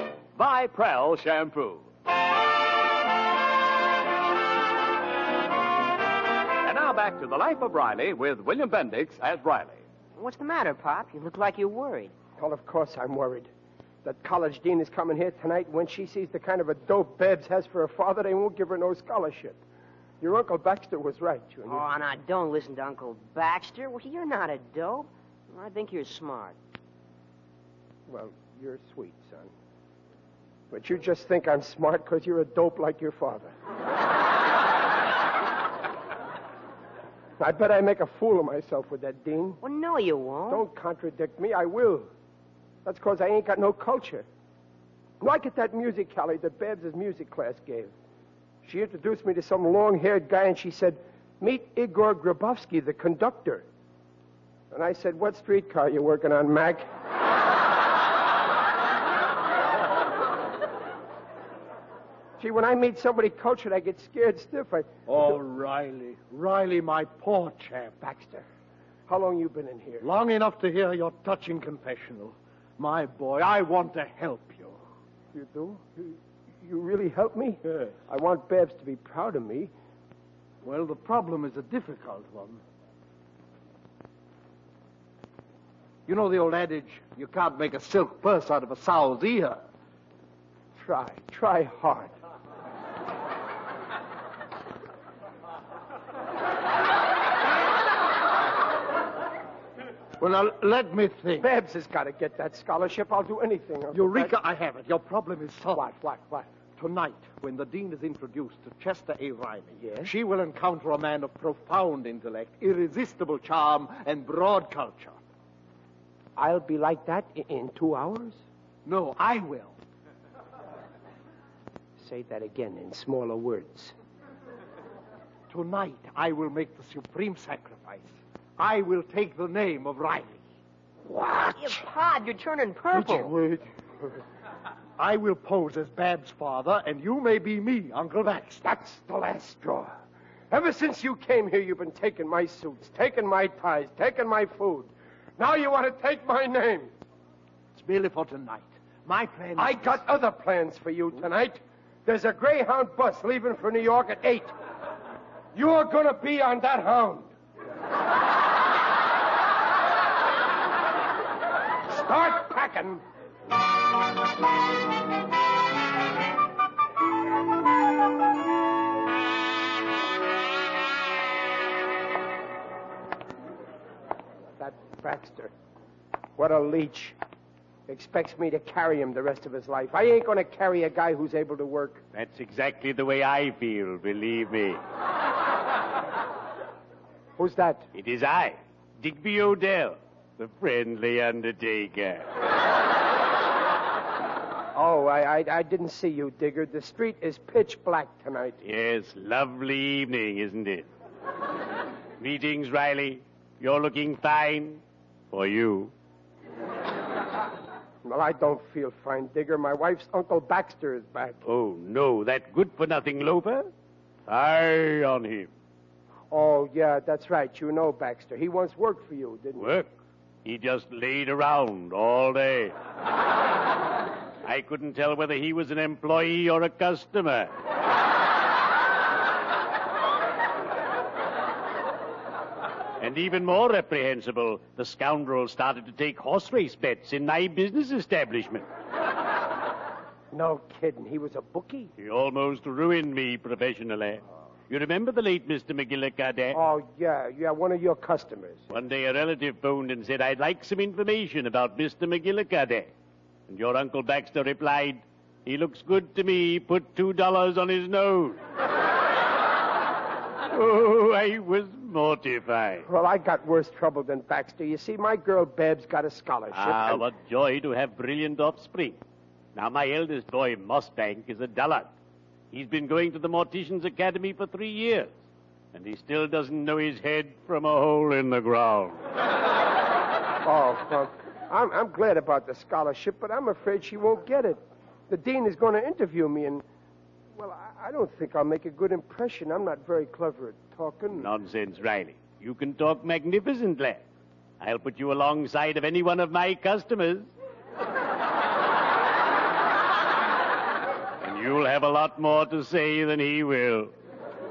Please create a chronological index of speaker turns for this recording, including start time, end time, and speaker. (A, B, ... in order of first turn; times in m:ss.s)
0:00.4-0:01.8 A
0:06.6-0:09.8 A
0:10.2-0:12.1 B
0:12.4-0:13.5 C
0:14.0-0:19.6 C
0:20.2-0:21.9 C
0:21.7-0:26.6 B
0:28.1-0:29.5 C
0:30.7-0:33.5 C
0:37.4-0:39.6 C
0:39.6-0:40.6 B
0:40.5-0:42.1 C
0:42.8-0:44.2 C
0:45.2-0:47.9 C
0:48.6-0:53.6 C
0:54.7-0:56.9 C
1:02.4-1:05.0 C
1:05.1-1:08.0 D
1:08.0-1:08.4 C
1:09.1-1:10.0 C
1:10.0-1:14.8 D
1:15.3-1:19.7 C
1:20.6-1:22.6 D
1:26.0-1:29.6 D
1:30.7-1:32.1 C
1:40.2-1:41.4 D
1:41.4-1:44.3 C
1:43.9-1:46.0 D
1:45.7-1:46.5 C
1:46.8-1:55.2 D
1:49.8-1:50.1 C
1:56.4-1:58.4 C
1:58.8-1:59.7 D
2:02.0-2:03.9 C
2:05.5-2:10.4 D
2:11.1-2:11.7 C
2:11.5-2:13.3 B
2:12.9-2:13.6 C
2:15.0-2:18.6 D
2:18.6-2:19.9 C
2:20.5-2:26.9 C
2:27.7-2:30.0 D
2:29.6-2:34.5 C
2:35.5-2:37.3 C
2:41.8-2:43.0 C
2:54.6-2:55.5 C
2:56.4-2:57.2 C
2:57.9-3:02.0 C
3:02.1-3:04.8 E
3:07.4-3:07.9 C
3:07.9-3:12.3 E
3:14.7-3:18.6 C
3:18.6-3:20.9 E
3:22.2-3:25.9 E
3:28.0-3:31.4 C
3:31.4-3:33.7 E
3:34.3-3:35.5 E
3:36.3-3:39.7 C
3:39.6-3:39.9 E
3:40.4-3:42.7 E
3:44.4-3:47.5 E
3:53.0-3:58.6 E
4:00.3-4:01.9 C
4:02.0-4:06.6 E
4:06.5-4:08.6 C
4:08.7-4:12.9 E
4:13.5-4:18.4 E
4:20.5-4:22.9 E
4:22.8-4:27.0 C
4:26.5-4:29.0 E
4:29.5-4:31.9 E
4:32.5-4:35.1 E
4:35.7-4:39.0 E
4:40.4-4:46.6 C
4:47.3-4:51.3 C
4:51.1-4:54.0 E
4:54.6-4:57.3 E
5:01.2-5:03.9 E